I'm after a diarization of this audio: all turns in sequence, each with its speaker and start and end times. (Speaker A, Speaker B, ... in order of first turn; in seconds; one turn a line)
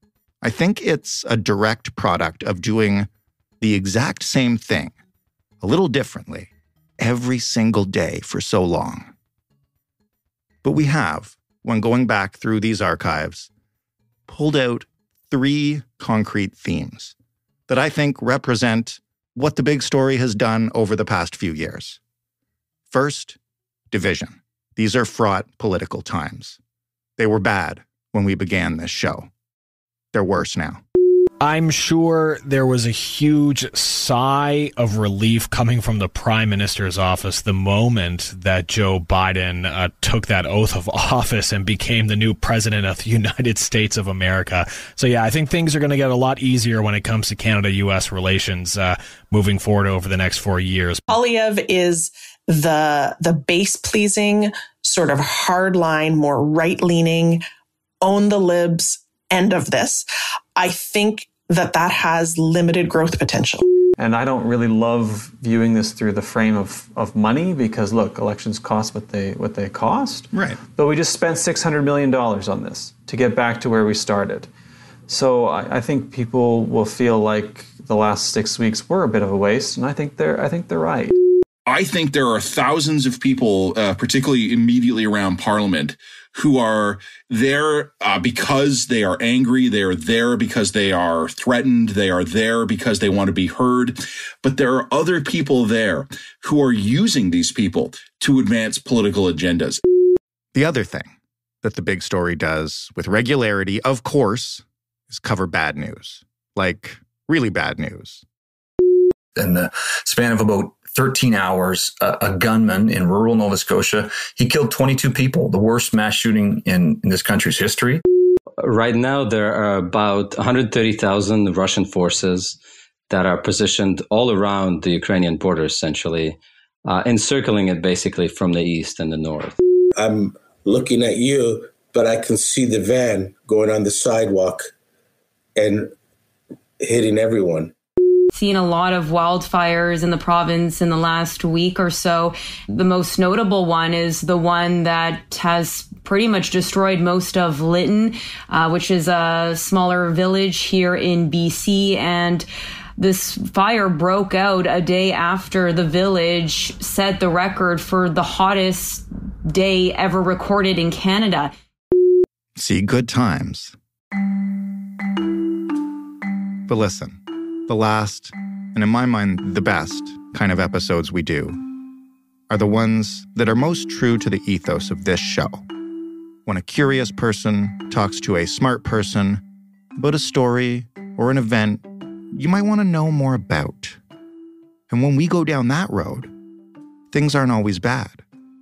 Speaker A: 0.4-3.1
Speaker A: 3.6-4.9
Speaker A: 5.6-9.1
Speaker A: 10.6-13.5
Speaker A: 14.3-17.1
Speaker A: 17.7-22.0
Speaker A: 22.9-23.4
Speaker A: 23.9-26.6
Speaker A: 27.2-29.3
Speaker A: 30.1-30.8
Speaker B: 31.4-51.0
Speaker C: 51.1-57.4
Speaker C: 58.0-63.6
Speaker D: 64.0-74.5
Speaker A: 70.3-70.6
Speaker D: 75.1-81.2
Speaker E: 81.7-99.8
Speaker A: 100.5-101.1
Speaker A: 101.6-108.2
Speaker F: 109.3-118.0
Speaker G: 118.6-122.6
Speaker G: 123.1-129.5
Speaker H: 129.9-134.7
Speaker H: 135.6-135.9
Speaker H: 136.8-137.7
Speaker I: 138.3-161.5
Speaker A: 162.6-163.8
Speaker A: 166.7-171.6
Speaker A: 172.5-175.6
Speaker A: 176.4-179.4
Speaker A: 180.0-184.0
Speaker A: 184.9-186.3
Speaker A: 187.1-188.2